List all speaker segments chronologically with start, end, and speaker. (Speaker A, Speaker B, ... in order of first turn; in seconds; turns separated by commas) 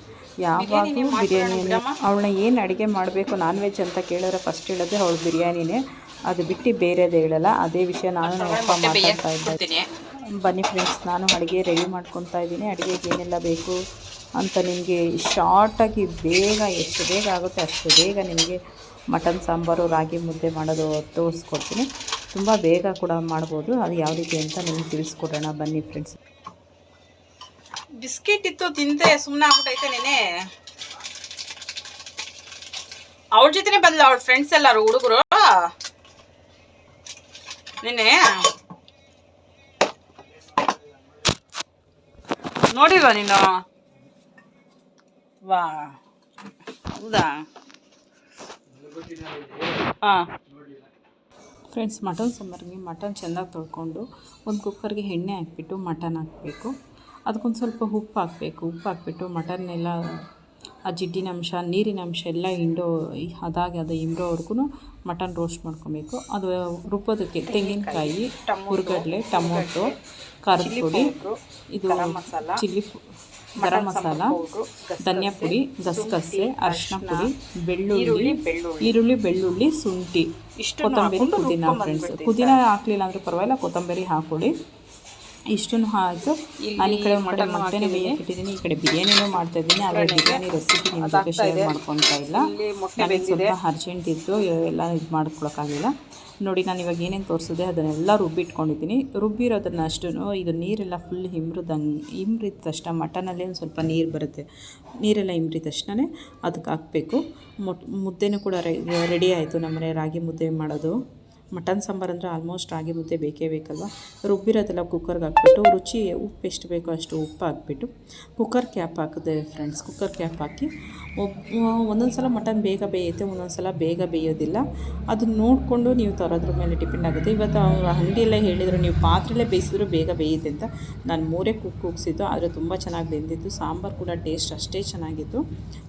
Speaker A: 0.4-9.6, Speaker B: 0.6-2.0, Speaker B: 8.2-9.9, Speaker A: 10.4-13.8, Speaker A: 14.4-18.6, Speaker A: 19.1-26.2, Speaker B: 28.0-30.2, Speaker B: 33.3-35.6, Speaker B: 37.8-38.4, Speaker B: 42.7-43.6, Speaker B: 45.5-46.0, Speaker B: 46.9-47.4, Speaker B: 50.0-50.3, Speaker A: 51.7-56.7, Speaker A: 57.3-60.0, Speaker A: 60.9-69.9, Speaker B: 67.5-70.0, Speaker A: 70.4-71.1, Speaker B: 70.6-72.6, Speaker A: 71.7-73.0, Speaker A: 73.6-74.4, Speaker B: 73.6-77.3, Speaker A: 75.0-80.3, Speaker B: 77.9-79.0, Speaker B: 80.6-82.6, Speaker A: 80.8-84.5, Speaker A: 85.5-95.9, Speaker B: 86.6-88.2, Speaker B: 89.8-91.8, Speaker B: 92.3-93.5, Speaker A: 96.4-104.5, Speaker A: 105.0-111.0, Speaker A: 111.5-135.4